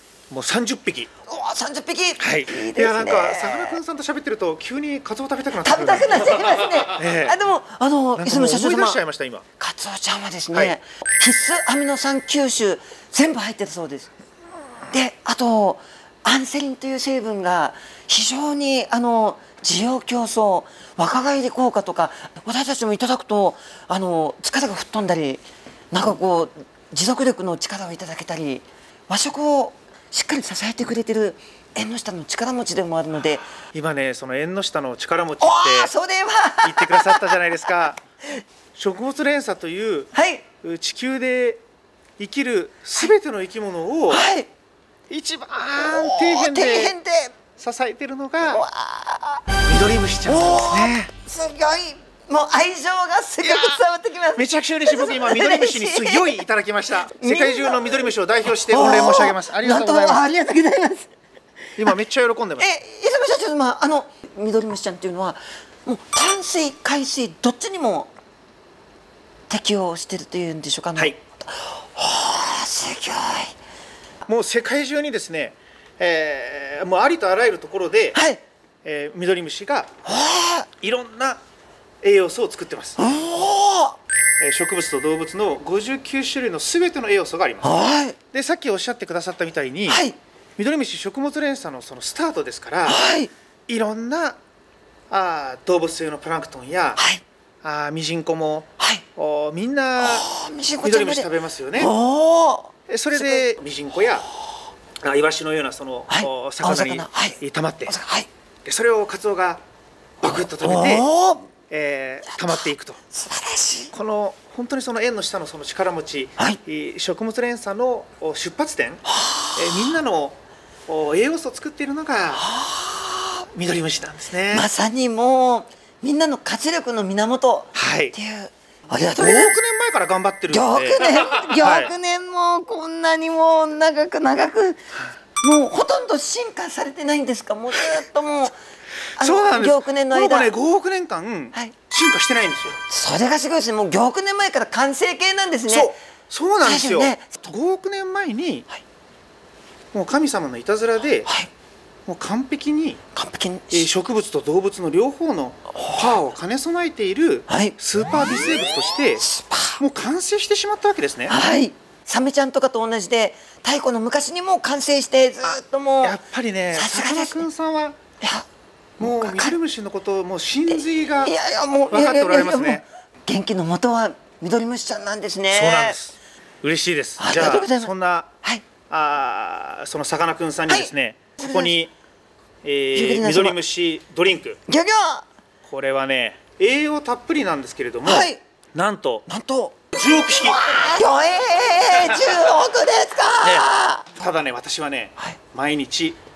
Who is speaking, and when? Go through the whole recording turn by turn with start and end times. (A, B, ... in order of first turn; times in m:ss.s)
0:00.3-0:01.1 A
0:01.3-0:03.8 B
0:02.2-0:07.4 A
0:05.6-0:09.0 B
0:08.2-0:09.4 A
0:09.6-0:14.1 B
0:14.9-0:33.5 B
0:33.7-0:35.9 A
0:35.4-0:37.3 B
0:36.6-0:38.0 A
0:38.7-0:40.1 A
0:40.1-0:40.4 B
0:40.6-0:41.6 A
0:42.2-0:44.2 A
0:44.1-0:44.5 B
0:45.1-0:46.9 A
0:45.8-0:47.4 B
0:47.6-0:48.6 A
0:48.4-0:49.4 B
0:49.6-0:51.1 A
0:50.2-0:56.4 B
0:53.4-0:53.8 A
0:54.3-1:00.2 A
0:57.0-0:57.8 B
0:58.7-1:01.1 B
1:01.8-1:02.6 A
1:02.6-1:08.1 B
1:09.5-1:13.5 B
1:14.2-1:18.2 A
1:18.1-1:18.4 B
1:18.8-1:19.9 A
1:20.0-1:20.7 B
1:20.8-1:21.4 A
1:22.0-1:23.0 A
1:23.0-1:24.0 B
1:24.4-1:27.7 A
1:27.6-1:28.2 B
1:28.3-1:30.0 A
1:29.9-1:30.2 B
1:30.6-1:33.0 A
1:32.8-1:33.3 B
1:33.7-1:34.4 A
1:35.1-1:37.0 A
1:37.0-1:37.2 B
1:37.6-1:40.3 A
1:40.0-1:43.4 B
1:40.8-1:41.9 A
1:42.9-1:44.3 A
1:45.0-1:48.0 A
1:46.1-1:48.3 B
1:48.6-1:49.6 A
1:50.2-1:51.0 A
1:50.6-1:51.5 B
1:51.7-1:53.0 A
1:52.4-1:53.9 B
1:53.9-1:59.0 A
1:59.1-1:59.8 B
1:59.6-2:02.4 A
2:02.4-2:03.4 B
2:03.5-2:04.7 A
2:04.5-2:09.6 B
2:07.7-2:08.1 A
2:09.2-2:11.9 A
2:10.5-2:14.8 B
2:15.4-2:18.5 B
2:19.2-2:20.5 B
2:19.2-2:22.8 A
2:22.9-2:26.0 B
2:25.7-2:28.6 A
2:26.6-2:27.4 B
2:29.9-2:31.3 A
2:32.0-2:33.0 A
2:33.1-2:33.9 B
2:33.7-2:39.2 A
2:35.8-2:36.1 B
2:37.5-2:37.8 B
2:39.2-2:39.8 B
2:39.8-2:41.3 A
2:41.3-2:46.2 B
2:45.4-2:48.0 A
2:46.7-2:47.4 B
2:48.2-2:48.5 B
2:49.0-2:51.3 A
2:49.0-2:49.6 B
2:50.7-2:56.0 B
2:51.9-2:52.8 A
2:55.5-2:58.3 A
2:57.2-2:57.9 B
2:58.9-3:01.9 A
3:00.7-3:01.8 B
3:02.6-3:04.6 A
3:02.9-3:03.6 B
3:04.7-3:05.2 B
3:05.6-3:09.2 A
3:08.0-3:08.4 B
3:09.3-3:14.1 B
3:09.9-3:10.8 A
3:12.0-3:12.4 A
3:13.4-3:16.2 A